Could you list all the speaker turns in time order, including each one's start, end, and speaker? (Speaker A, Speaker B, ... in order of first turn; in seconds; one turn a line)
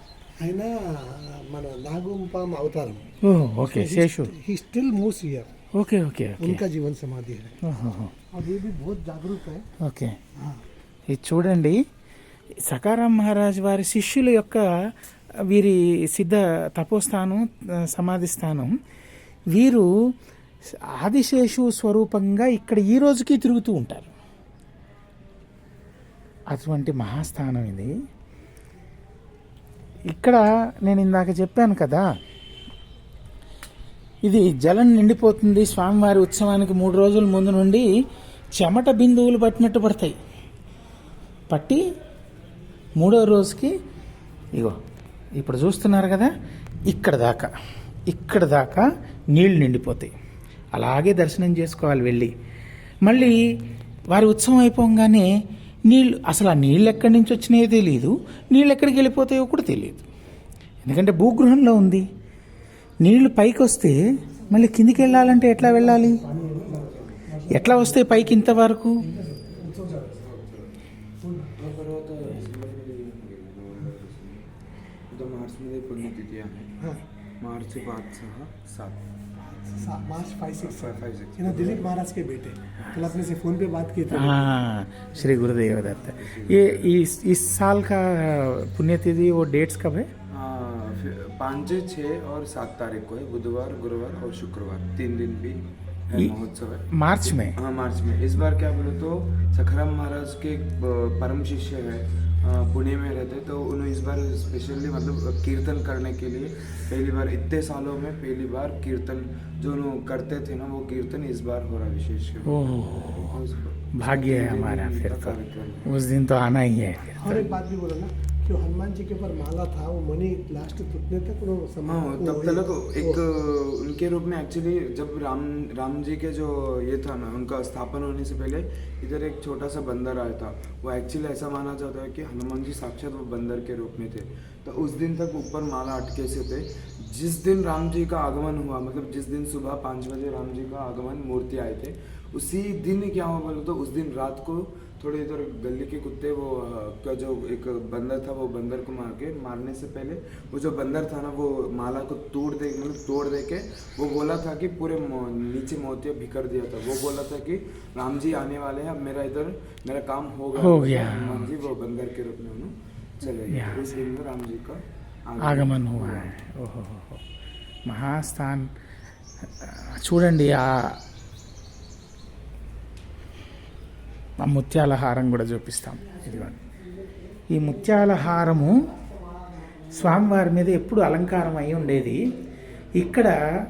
Speaker A: 0.4-3.0
Speaker B: 3.2-4.3
Speaker A: 3.7-5.5
Speaker B: 5.8-6.6
Speaker A: 6.4-7.6
Speaker B: 7.6-8.1
Speaker A: 8.3-9.6
Speaker B: 9.8-10.1
Speaker B: 11.1-11.8
Speaker B: 12.7-14.7
Speaker B: 15.5-18.7
Speaker B: 19.5-19.9
Speaker B: 20.9-24.1
Speaker B: 26.5-27.9
Speaker B: 30.1-32.0
Speaker B: 34.2-37.9
Speaker B: 38.6-40.1
Speaker B: 41.5-41.8
Speaker B: 43.0-43.7
Speaker B: 45.4-46.3
Speaker B: 46.9-47.5
Speaker B: 48.1-50.1
Speaker B: 50.7-52.3
Speaker B: 53.0-53.4
Speaker B: 54.1-55.3
Speaker B: 55.9-60.0
Speaker B: 60.8-62.0
Speaker B: 63.0-64.0
Speaker B: 64.5-66.2
Speaker A: 64.6-70.6
Speaker B: 67.5-69.0
Speaker A: 71.2-71.5
Speaker C: 71.6-74.4
Speaker C: 75.1-76.8
Speaker C: 77.4-79.0
Speaker A: 79.4-84.5
Speaker C: 80.6-81.9
Speaker B: 84.1-90.1
Speaker C: 85.5-86.9
Speaker C: 90.3-115.9
Speaker B: 96.9-97.5
Speaker B: 112.5-113.4
Speaker B: 114.0-117.5
Speaker A: 117.2-123.2
Speaker C: 121.9-166.3
Speaker B: 160.6-161.5
Speaker B: 163.5-163.8
Speaker B: 165.4-167.2
Speaker B: 167.9-168.7
Speaker B: 169.6-171.0
Speaker B: 174.4-176.6
Speaker B: 177.5-178.9
Speaker B: 179.9-182.2
Speaker B: 183.0-183.3